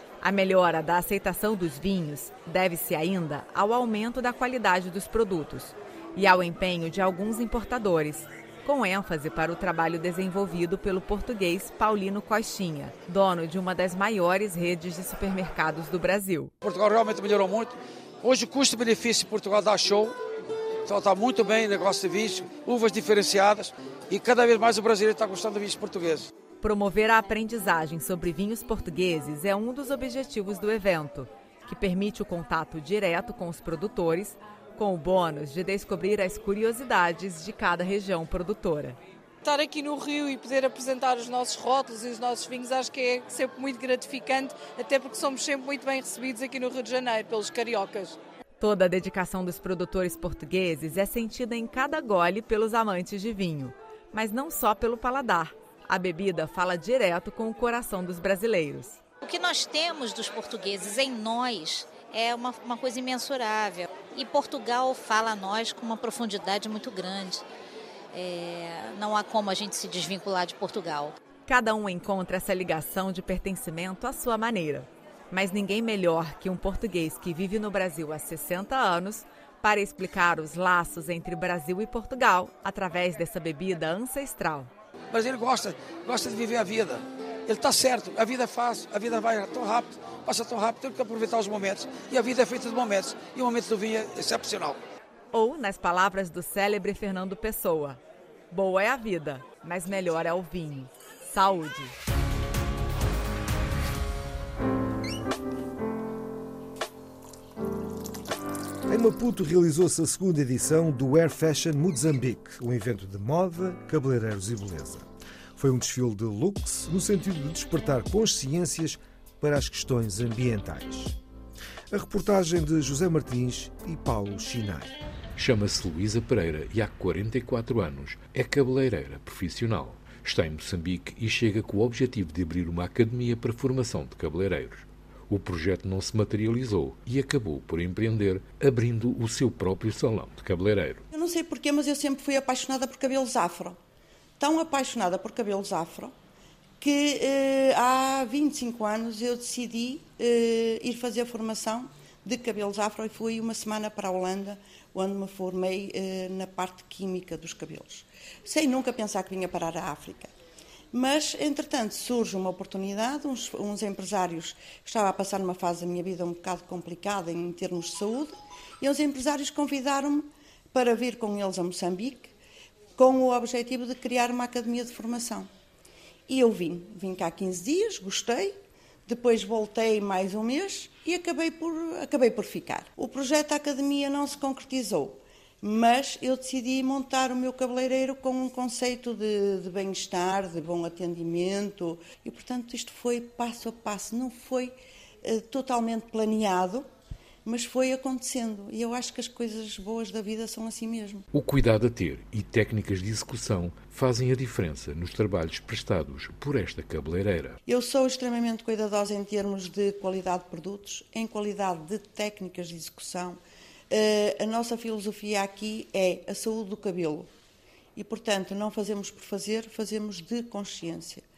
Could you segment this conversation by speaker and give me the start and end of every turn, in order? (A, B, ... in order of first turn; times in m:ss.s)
0:00.2-0:16.5 A
0:16.6-0:20.2 B
0:20.9-0:26.3 B
0:26.6-0:39.0 A
0:39.4-0:48.2 C
0:48.6-0:59.0 A
0:59.2-1:07.4 D
1:08.1-1:11.2 D
1:11.5-1:24.7 A
1:25.1-1:34.8 B
1:35.3-1:38.0 A
1:38.5-1:41.9 A
1:48.9-2:01.2 E
2:01.9-2:05.0 E
2:05.4-2:21.0 F
2:21.1-2:23.8 G
2:24.4-2:26.1 G
2:26.8-2:40.3 G
2:40.9-2:52.3 G
2:53.0-2:55.5 G
2:56.3-2:58.6 G
2:59.1-3:16.9 G
3:17.4-3:21.3 G
3:21.3-3:27.6 F
3:27.7-3:33.4 G
3:33.9-3:37.3 G
3:38.0-3:41.2 G